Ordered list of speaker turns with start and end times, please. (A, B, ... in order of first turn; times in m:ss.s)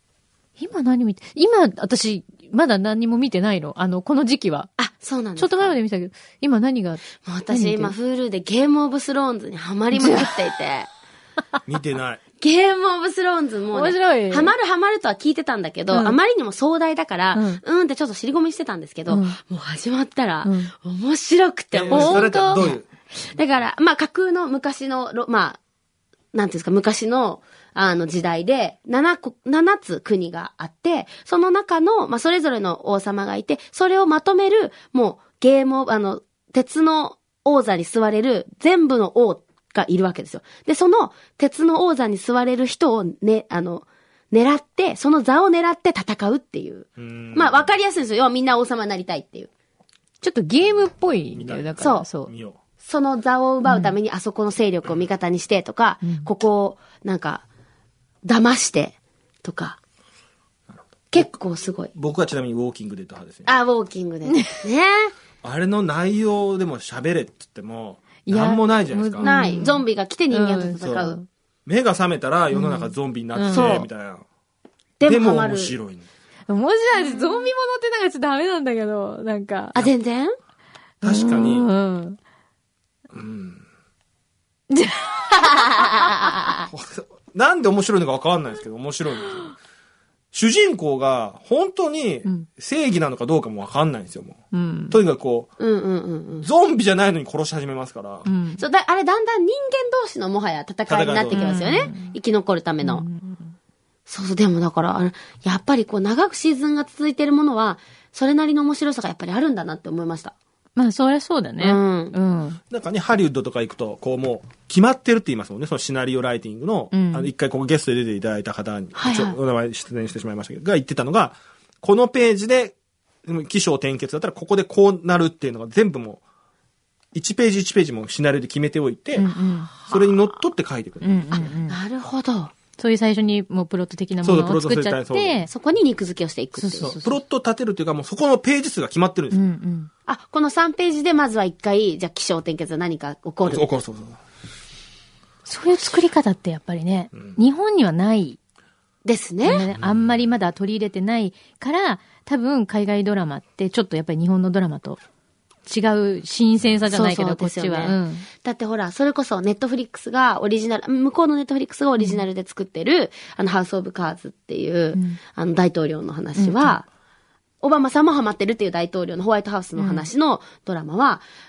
0:00.6-0:04.7 A
0:04.8-0:05.8 B
0:05.4-0:07.9 A
0:07.2-0:10.9 B
0:10.0-0:10.3 A
0:11.7-0:12.2 C
0:12.4-0:25.6 B
0:13.7-0:14.5 A
0:15.9-0:16.2 A
0:17.3-0:17.6 A
0:19.1-0:19.4 A
0:20.4-0:20.7 A
0:21.7-0:22.9 C
0:21.9-0:22.7 A
0:26.3-0:49.5 B
0:47.0-0:47.7 C
0:50.2-0:52.3 A
0:51.4-0:52.6 C
0:51.8-0:52.1 B
0:52.8-0:57.4 B
0:53.7-0:53.9 A
0:56.0-0:56.3 A
0:58.2-0:59.8 B
1:00.7-1:01.3 C
1:01.1-1:01.9 B
1:01.9-1:03.5 C
1:03.5-1:05.1 B
1:05.4-1:09.3 C
1:08.3-1:11.3 A
1:09.2-1:11.2 B
1:10.8-1:11.1 C
1:11.7-1:14.2 C
1:12.5-1:13.8 A
1:13.5-1:13.9 B
1:15.0-1:15.8 B
1:15.1-1:16.1 C
1:16.5-1:19.8 A
1:17.0-1:17.5 B
1:19.8-1:20.3 B
1:21.0-1:21.7 C
1:21.0-1:22.2 A
1:23.1-1:23.6 C
1:24.7-1:26.7 A
1:26.7-1:29.6 C
1:30.3-1:35.5 C
1:34.5-1:35.0 A
1:35.6-1:36.5 B
1:36.4-1:38.3 C
1:38.2-1:38.6 A
1:38.6-1:43.1 B
1:40.9-1:41.6 C
1:41.3-1:42.2 A
1:42.8-1:43.5 A
1:44.1-1:50.3 B
1:50.8-1:52.6 A
1:51.6-1:52.2 B
1:52.7-2:06.2 C
1:56.9-1:57.3 A
1:59.0-1:59.4 B
2:07.1-2:09.3 C
2:09.2-2:09.7 A
2:09.9-2:11.4 C
2:11.0-2:11.8 A
2:11.7-2:12.5 B
2:12.8-2:15.5 A
2:14.2-2:15.5 C
2:15.5-2:17.0 B
2:16.6-2:17.2 A
2:16.8-2:19.4 C
2:19.3-2:19.9 A
2:20.1-2:23.6 B
2:23.4-2:24.2 C
2:25.5-2:28.4 A
2:29.0-2:29.7 B
2:29.4-2:35.0 A
2:29.7-2:30.1 C
2:35.7-2:38.3 A
2:36.9-2:46.8 B
2:44.9-2:45.2 A
2:46.4-2:46.8 A
2:47.6-2:51.2 B
2:49.8-2:50.1 A